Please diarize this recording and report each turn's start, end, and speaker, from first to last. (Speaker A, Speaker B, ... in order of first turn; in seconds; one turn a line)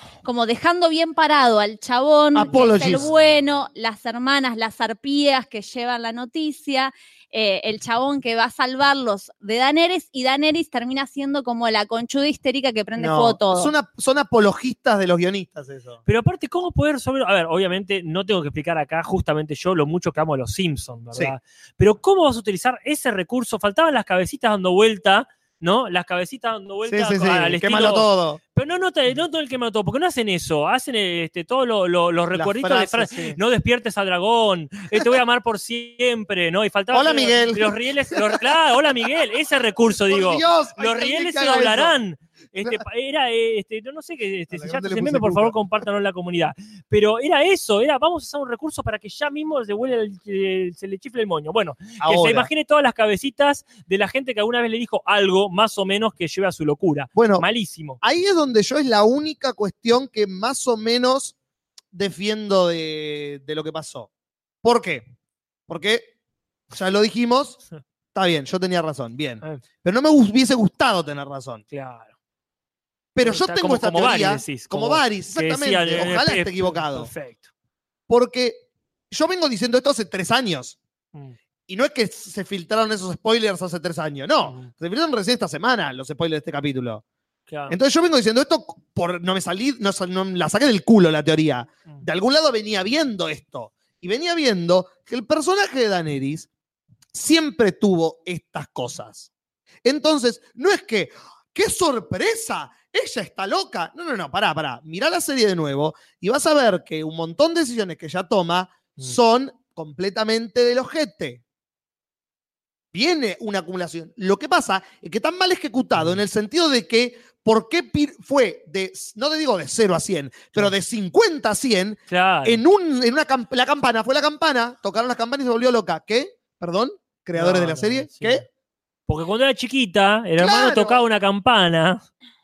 Speaker A: 0.2-13.7
Speaker B: 2.3-3.0
Speaker B: 13.0-16.0
Speaker C: 16.1-58.0
Speaker B: 26.9-28.4
Speaker B: 32.3-33.4
Speaker B: 36.9-38.4
Speaker B: 40.0-41.9
Speaker B: 44.5-45.5
Speaker B: 52.0-52.5
Speaker B: 57.1-57.5
Speaker B: 58.0-61.3
Speaker B: 61.9-64.1
Speaker B: 64.6-65.1
Speaker B: 65.7-66.1
Speaker B: 66.7-67.6
Speaker B: 68.1-71.6
Speaker C: 71.7-72.1
Speaker B: 73.1-77.1
Speaker C: 73.2-77.5
Speaker B: 78.1-80.8
Speaker B: 81.7-87.0
Speaker C: 84.4-84.7
Speaker C: 87.5-87.8
Speaker B: 87.7-96.5
Speaker B: 97.1-99.3
Speaker B: 99.8-111.4
Speaker B: 112.9-128.4
Speaker C: 122.1-122.6
Speaker C: 127.3-128.4
Speaker C: 129.1-132.0
Speaker B: 130.4-131.0